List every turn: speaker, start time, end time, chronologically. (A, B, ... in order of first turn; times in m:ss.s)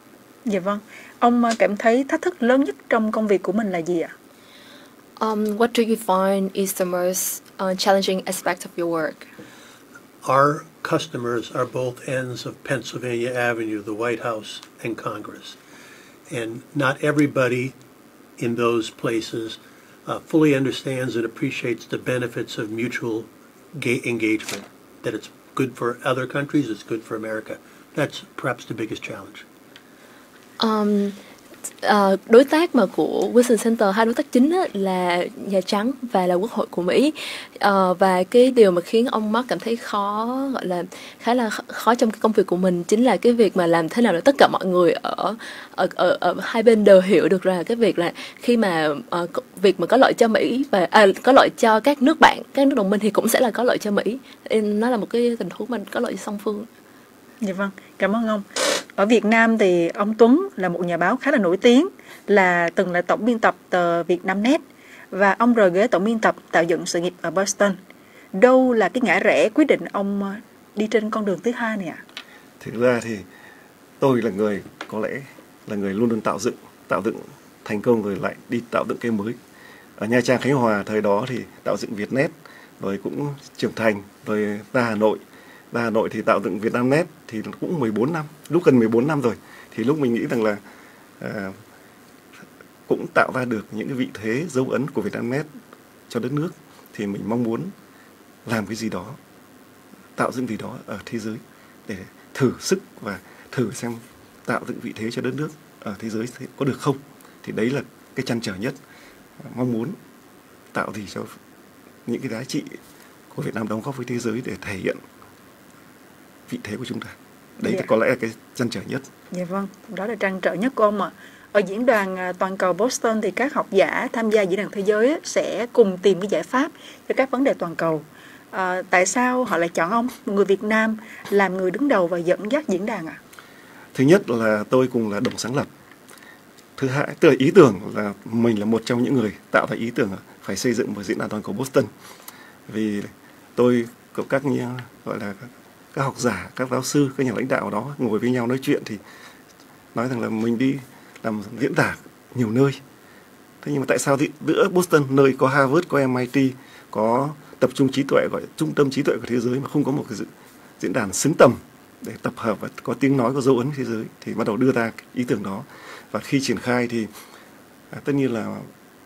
0:00.5-0:04.1 A
0:05.2-0:09.3 B
0:10.2-0:15.6 C
0:16.3-0:17.8 C
0:18.4-0:29.4 C
0:30.6-0:31.2 B
0:31.8-0:56.7 B
0:57.4-1:07.8 A
1:08.4-1:12.0 A
1:12.6-1:13.3 D
1:14.0-1:19.4 D
1:20.0-1:25.2 D
1:25.7-1:30.6 D
1:31.2-1:31.6 D
1:32.9-1:35.5 D
1:36.1-1:37.7 D
1:38.5-1:39.2 D
1:40.2-1:48.8 D
1:49.4-1:50.0 D
1:50.7-1:51.3 D
1:52.1-1:52.8 D
1:53.3-1:55.0 D
1:56.5-1:59.1 D
1:59.3-2:13.2 A
2:13.9-2:15.7 D
2:16.8-2:21.9 D
2:22.7-2:29.0 D
2:30.0-2:32.8 D
2:33.6-2:40.3 D
2:40.8-2:47.1 D
2:47.9-2:48.7 D